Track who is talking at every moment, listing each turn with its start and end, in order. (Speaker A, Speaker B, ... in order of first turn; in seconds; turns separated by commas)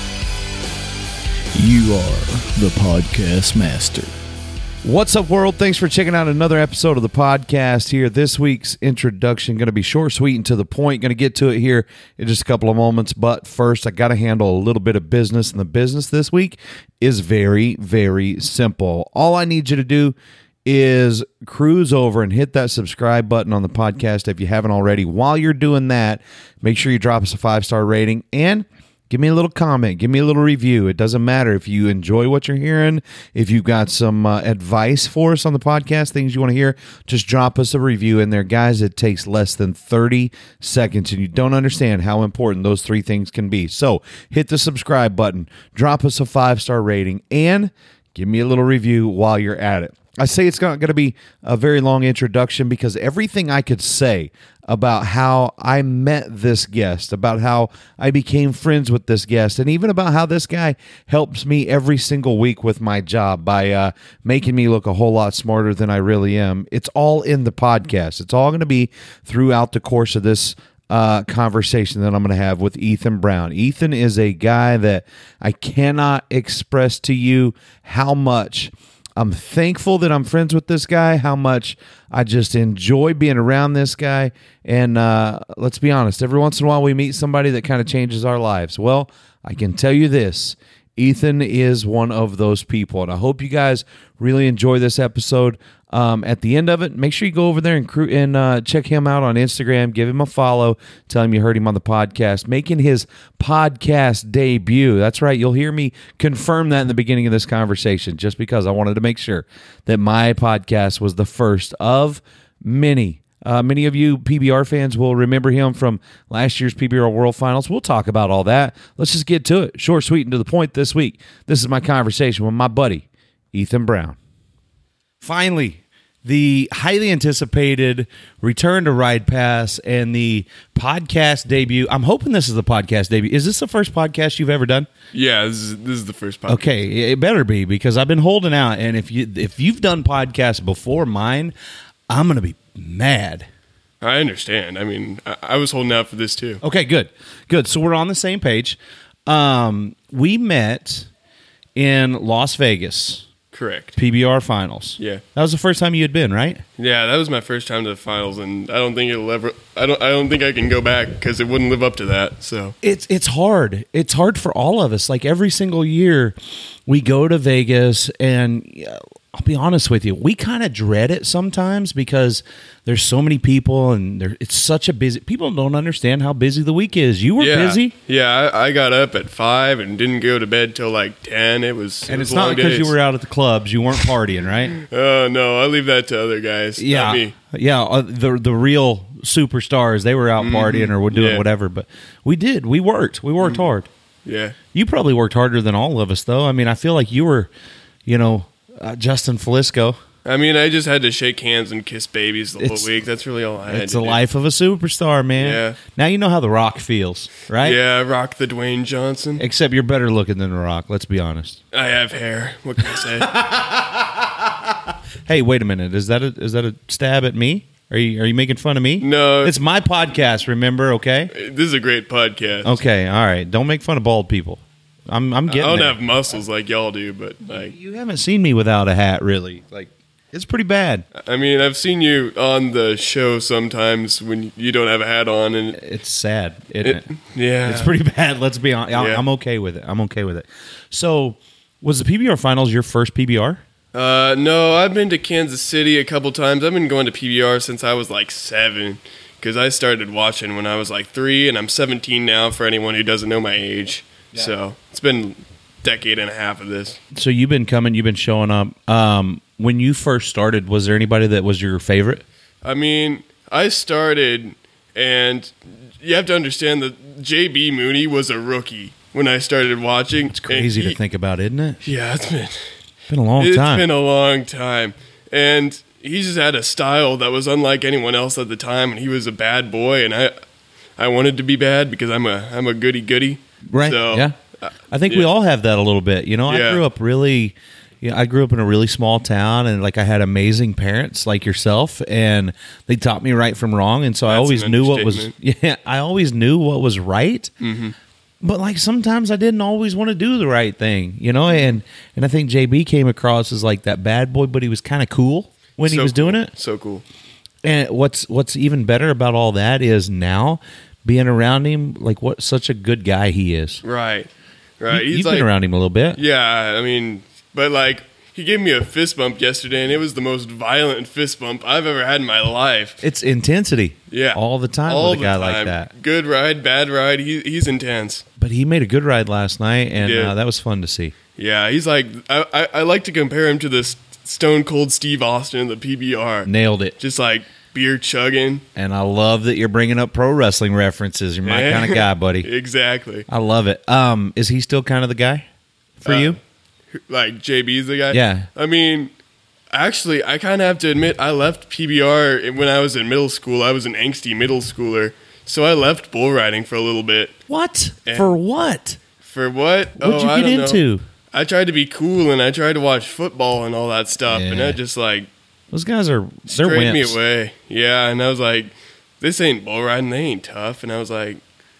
Speaker A: 1.5-4.1, Speaker B: 4.8-124.2, Speaker B: 125.2-134.9, Speaker C: 135.1-136.6, Speaker B: 136.5-141.5, Speaker B: 142.1-143.5, Speaker C: 144.0-146.6, Speaker B: 146.6-151.1, Speaker B: 151.8-153.3, Speaker C: 153.5-154.0, Speaker B: 154.0-156.6, Speaker C: 156.8-162.7, Speaker B: 162.8-166.3, Speaker B: 166.9-177.9, Speaker C: 177.4-182.9, Speaker B: 182.1-184.7, Speaker C: 184.8-187.3, Speaker B: 186.8-193.9, Speaker C: 190.4-191.4, Speaker C: 194.2-194.6, Speaker B: 194.7-197.5, Speaker B: 198.1-200.0, Speaker C: 200.2-204.2, Speaker B: 202.6-202.9, Speaker B: 203.7-207.8, Speaker C: 205.4-205.8, Speaker C: 207.6-209.4, Speaker B: 209.4-211.6, Speaker C: 211.7-213.3, Speaker B: 213.0-221.3, Speaker C: 219.0-219.5, Speaker C: 221.3-222.8, Speaker B: 222.6-225.9, Speaker C: 225.5-227.7, Speaker B: 227.5-231.0, Speaker C: 231.1-235.8, Speaker B: 235.7-237.0, Speaker C: 236.8-237.9, Speaker B: 237.6-243.6, Speaker C: 238.9-239.2, Speaker C: 243.9-257.0, Speaker B: 257.1-262.2, Speaker C: 262.6-271.0, Speaker B: 270.3-271.8, Speaker C: 271.8-272.7, Speaker B: 273.1-273.8, Speaker C: 273.4-280.3, Speaker C: 281.0-285.3, Speaker B: 283.7-284.3, Speaker B: 284.9-297.5, Speaker C: 286.5-286.8, Speaker C: 294.2-295.3, Speaker C: 297.6-297.9, Speaker B: 298.4-306.5, Speaker C: 305.8-307.0, Speaker B: 307.6-313.8, Speaker C: 313.8-315.5, Speaker B: 314.9-316.2, Speaker C: 316.1-323.0, Speaker B: 323.0-325.9, Speaker C: 324.1-328.2, Speaker B: 328.4-331.1, Speaker C: 330.0-330.3, Speaker C: 331.4-338.6, Speaker B: 336.4-336.9, Speaker B: 338.8-342.5, Speaker C: 341.4-343.3, Speaker B: 343.3-345.5, Speaker B: 346.0-346.4, Speaker C: 346.0-346.4, Speaker C: 346.9-349.1, Speaker B: 348.1-348.5, Speaker C: 349.7-357.3, Speaker B: 357.5-359.0, Speaker C: 358.1-358.3, Speaker C: 359.2-360.8, Speaker B: 360.0-361.0, Speaker C: 361.3-365.3, Speaker B: 364.3-364.8, Speaker B: 365.7-367.2, Speaker C: 366.5-371.4